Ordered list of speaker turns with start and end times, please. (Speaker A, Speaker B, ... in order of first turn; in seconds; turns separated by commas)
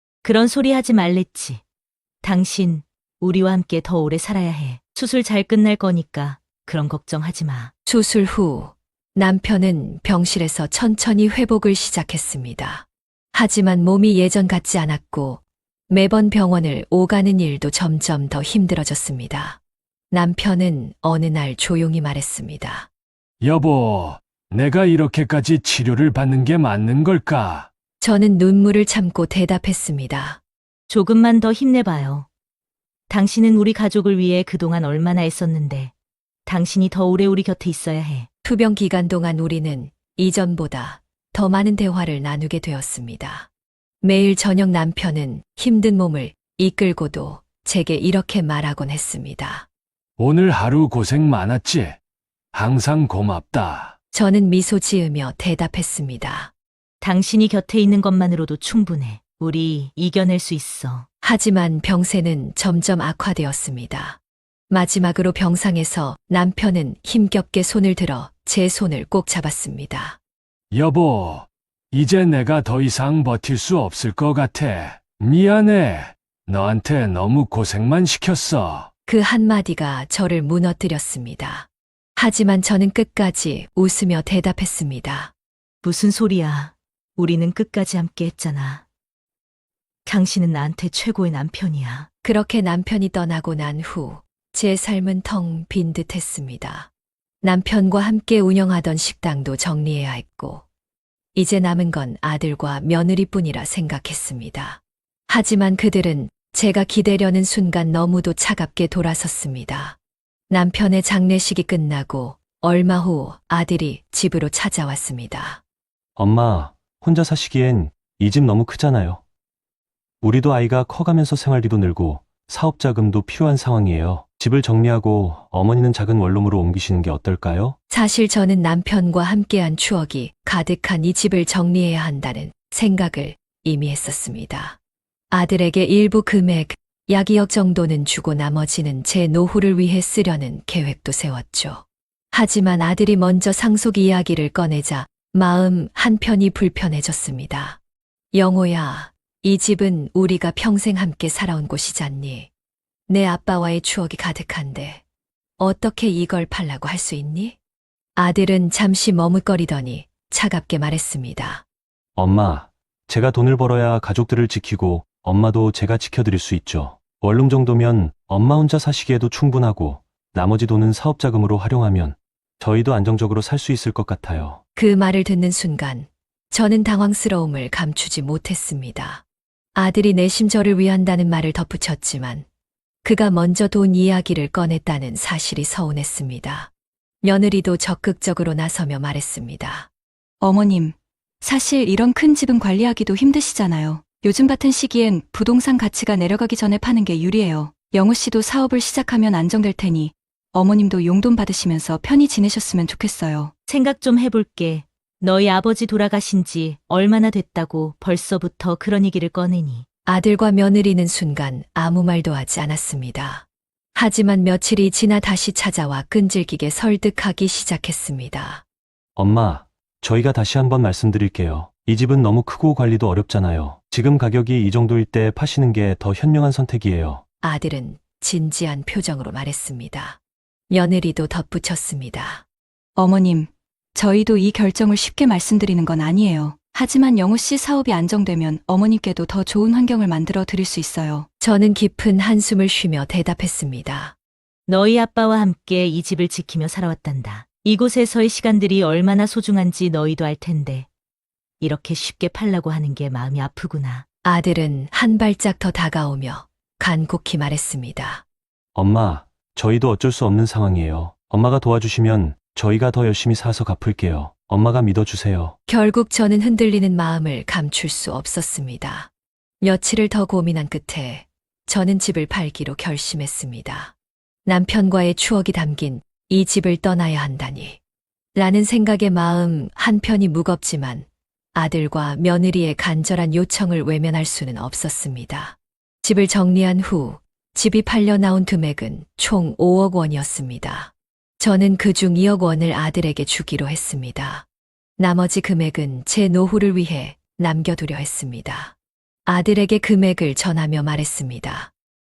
Speaker A: 0.2-1.6, Speaker A: 2.2-7.7, Speaker B: 7.9-19.6, Speaker B: 20.1-22.9, Speaker C: 23.4-27.7, Speaker B: 28.0-30.4, Speaker A: 30.9-32.3, Speaker A: 33.1-35.9, Speaker A: 36.5-38.3, Speaker B: 38.4-43.5, Speaker B: 44.0-49.7, Speaker C: 50.2-52.0, Speaker C: 52.5-54.0, Speaker B: 54.1-56.5, Speaker A: 57.0-61.1, Speaker B: 61.2-64.2, Speaker B: 64.7-70.2, Speaker C: 70.7-78.9, Speaker B: 79.1-85.3, Speaker A: 85.8-88.8, Speaker A: 90.1-92.1, Speaker B: 92.2-96.9, Speaker B: 97.4-100.6, Speaker B: 101.3-110.0, Speaker B: 110.5-115.6, Speaker D: 116.2-119.2, Speaker D: 120.2-127.8, Speaker B: 127.9-134.8, Speaker B: 135.3-147.8, Speaker B: 148.3-152.5, Speaker B: 153.1-155.0, Speaker B: 155.6-157.6, Speaker B: 158.2-161.6, Speaker D: 162.2-174.6, Speaker B: 174.8-179.2, Speaker B: 179.8-182.5, Speaker B: 183.0-186.7, Speaker B: 187.2-189.9, Speaker E: 190.4-203.5, Speaker A: 203.7-209.9, Speaker B: 210.1-218.6, Speaker D: 219.2-227.2, Speaker B: 227.4-230.2, Speaker B: 230.7-232.4, Speaker E: 233.0-241.3, Speaker B: 241.4-244.2, Speaker A: 244.7-250.9, Speaker A: 251.6-254.1, Speaker B: 254.2-258.2, Speaker D: 258.8-265.6, Speaker B: 265.7-269.1, Speaker B: 269.6-273.9, Speaker B: 274.5-277.8, Speaker B: 278.4-294.4, Speaker B: 295.0-298.8, Speaker B: 299.3-301.7